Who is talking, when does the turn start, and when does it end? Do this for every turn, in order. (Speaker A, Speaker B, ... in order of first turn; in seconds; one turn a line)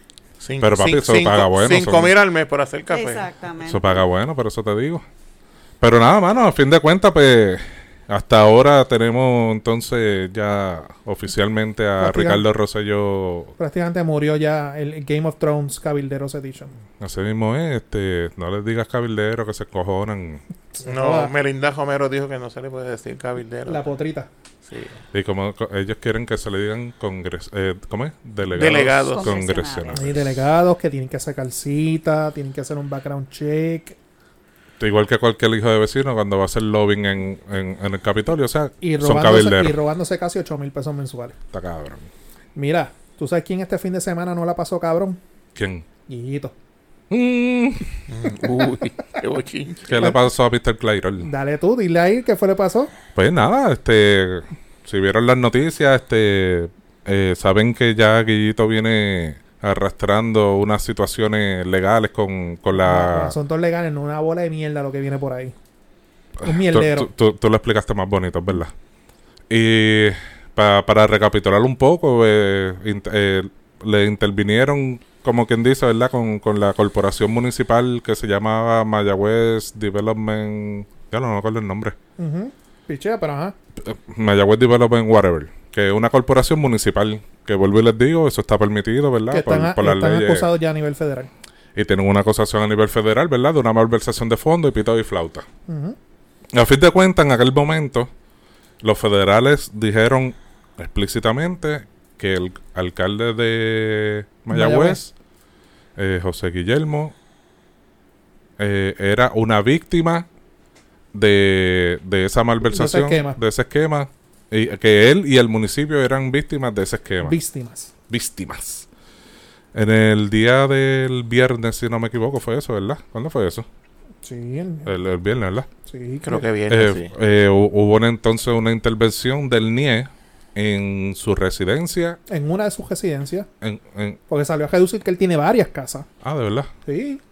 Speaker A: 0.4-3.3
Speaker B: 0.6-2.1
Speaker C: 2.9-3.8
Speaker B: 3.6-5.0
Speaker B: 5.8-13.5
Speaker D: 12.0-12.4
Speaker D: 13.6-16.7
Speaker B: 17.0-20.4
Speaker D: 20.7-21.3
Speaker A: 20.8-23.8
Speaker D: 23.6-24.3
Speaker A: 24.6-25.0
Speaker B: 25.1-30.2
Speaker A: 28.5-29.3
Speaker C: 29.1-30.1
Speaker D: 29.9-34.0
Speaker B: 34.8-39.8
Speaker D: 38.8-41.4
Speaker B: 41.5-42.1
Speaker D: 42.5-45.2
Speaker B: 45.5-45.8
Speaker D: 46.1-46.5
Speaker B: 47.1-48.0
Speaker A: 48.1-49.9
Speaker B: 49.9-51.3
Speaker D: 51.2-52.9
Speaker B: 53.1-63.4
Speaker D: 62.8-65.5
Speaker B: 66.4-68.7
Speaker D: 66.4-67.1
Speaker B: 69.5-82.0
Speaker D: 82.2-83.5
Speaker B: 83.8-90.5
Speaker D: 89.3-91.3
Speaker B: 91.8-95.5
Speaker D: 95.7-96.0
Speaker B: 96.5-98.1
Speaker B: 98.8-105.1
Speaker D: 104.5-105.0
Speaker B: 106.0-107.1
Speaker B: 108.6-110.2
Speaker B: 111.1-117.4
Speaker D: 112.7-113.4
Speaker D: 117.2-117.9
Speaker B: 118.1-118.9
Speaker B: 119.7-123.7
Speaker D: 124.2-124.9
Speaker B: 124.8-125.7
Speaker D: 125.8-126.5
Speaker A: 126.2-127.1
Speaker B: 126.7-132.2
Speaker D: 132.3-133.5
Speaker B: 133.6-134.2
Speaker D: 134.3-136.1
Speaker B: 136.2-136.7
Speaker D: 136.8-137.2